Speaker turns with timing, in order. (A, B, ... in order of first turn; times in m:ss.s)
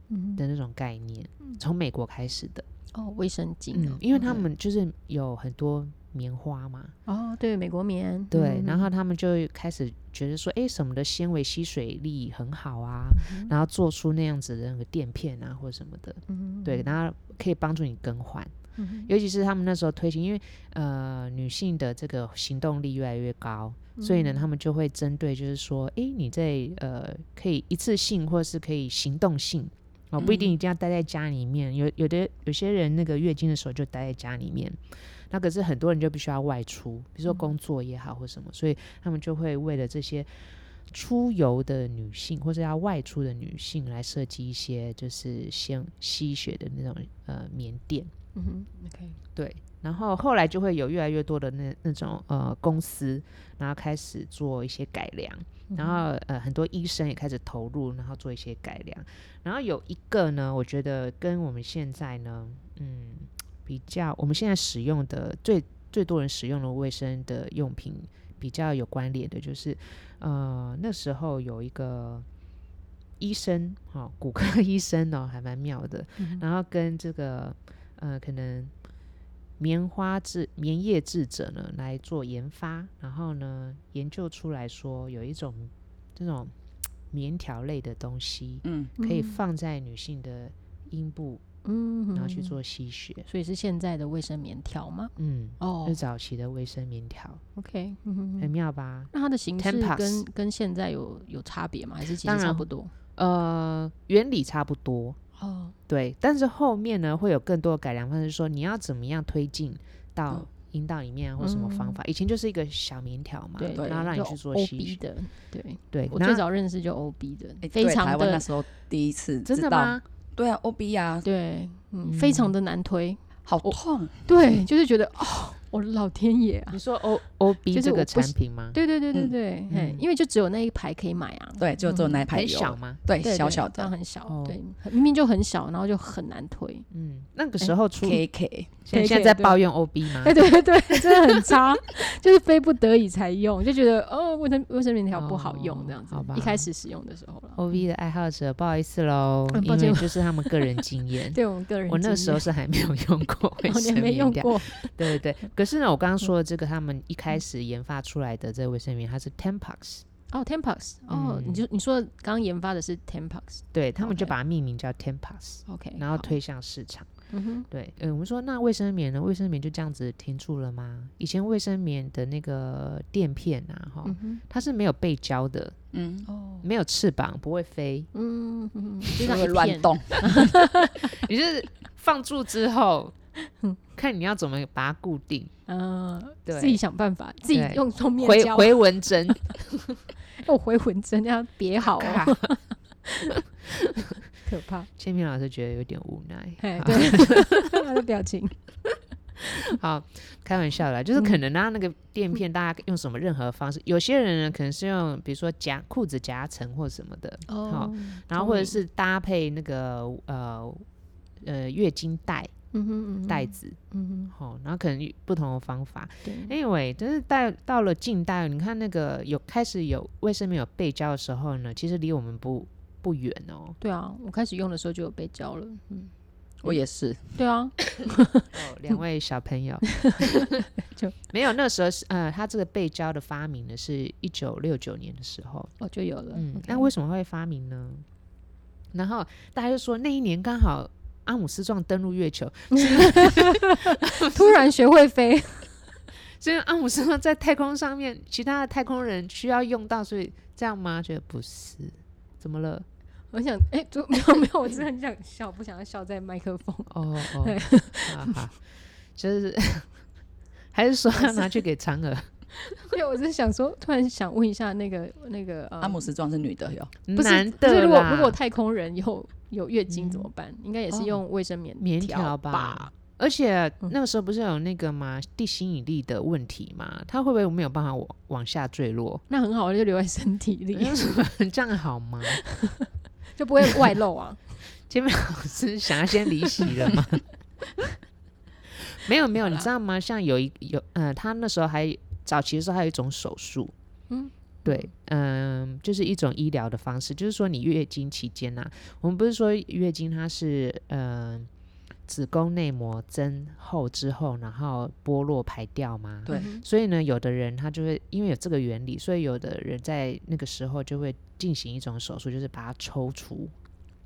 0:00.1-0:00.4 A
0:00.4-0:02.6 B
0:02.9-0:04.5 A
0:03.7-0:06.9 B
0:07.0-0:08.9 A
0:08.3-0:18.5 B
0:13.1-0:13.5 A
0:16.3-0:16.9 A
0:18.8-0:19.1 A
0:19.1-0:34.8 B
0:24.0-0:24.4 A
0:30.2-0:30.5 A
0:35.3-0:48.1 B
0:48.3-0:49.2 A
0:49.3-1:12.2 B
0:55.7-0:56.0 A
1:13.2-1:18.7 B
1:16.2-1:16.4 A
1:19.6-1:26.5 B
1:27.1-1:31.4 B
1:28.6-1:28.9 C
1:29.0-1:29.4 A
1:31.6-1:32.6 A
1:32.1-1:33.2 B
1:33.2-1:36.0 A
1:35.2-1:37.4 B
1:37.6-1:38.5 A
1:38.4-1:40.2 B
1:39.1-1:42.9 A
1:42.2-1:42.6 B
1:43.2-1:45.2 B
1:45.4-1:45.7 A
1:45.9-1:55.0 B
1:51.4-1:52.0 A
1:53.6-1:58.5 A
1:53.8-1:54.1 C
1:55.9-1:56.4 B
1:57.6-2:01.2 C
1:59.5-2:00.0 B
2:01.2-2:06.8 A
2:02.0-2:02.5 B
2:03.4-2:04.2 C
2:06.7-2:08.8 B
2:07.7-2:12.2 A
2:09.7-2:10.0 B
2:11.6-2:13.9 C
2:12.3-2:13.0 B
2:13.2-2:16.8 A
2:14.3-2:14.6 B
2:16.9-2:18.2 B
2:18.0-2:18.7 C
2:18.8-2:20.4 B
2:18.9-2:19.6 A
2:20.1-2:27.8 A
2:25.1-2:26.7 B
2:27.6-2:40.0 B
2:29.5-2:32.4 A
2:33.6-2:35.2 A
2:40.3-2:44.3 A
2:41.1-2:41.6 B
2:43.7-2:47.1 B
2:45.6-2:46.3 A
2:47.3-2:47.7 A
2:47.7-2:55.8 B
2:54.0-2:54.4 A
2:55.9-2:56.3 C
2:56.3-2:56.7 A
2:56.6-2:58.1 B
2:58.1-3:01.2 A
2:59.2-3:00.5 C
3:01.0-3:03.1 B
3:03.5-3:03.8 A
3:04.0-3:05.5 B
3:05.7-3:08.8 A
3:06.4-3:06.8 B
3:07.5-3:10.0 B
3:10.4-3:13.4 A
3:12.0-3:12.5 B
3:14.4-3:14.9 A
3:15.0-3:17.7 B
3:16.6-3:18.6 A
3:19.5-3:30.8 B
3:27.5-3:28.8 A
3:31.4-3:32.5 B
3:32.7-3:34.3 A
3:33.3-3:33.8 B
3:34.3-3:43.8 B
3:36.2-3:36.6 A
3:43.8-3:46.1 A
3:46.6-3:47.4 C
3:47.4-3:48.5 A
3:48.5-3:50.6 B
3:50.0-3:51.2 A
3:51.3-3:55.7 B
3:55.8-3:56.9 A
3:56.3-3:58.0 B
3:58.9-4:04.6 B
4:02.7-4:05.7 A
4:06.2-4:12.8 B
4:13.3-4:18.4 A
4:16.9-4:18.6 B
4:19.2-4:19.9 B
4:20.7-4:22.3 B
4:21.1-4:21.5 A
4:22.8-4:26.1 A
4:25.8-4:26.9 C
4:27.1-4:28.4 B
4:27.1-4:32.9 A
4:29.9-4:30.3 B
4:30.9-4:31.2 B
4:31.8-4:39.2 B
4:39.3-4:41.2 A
4:40.7-4:42.4 B
4:42.3-4:44.4 A
4:44.8-4:47.2 B
4:48.7-4:53.7 B
4:54.1-4:54.9 A
4:54.6-5:01.5 B
5:02.1-5:13.5 B
5:06.3-5:06.6 A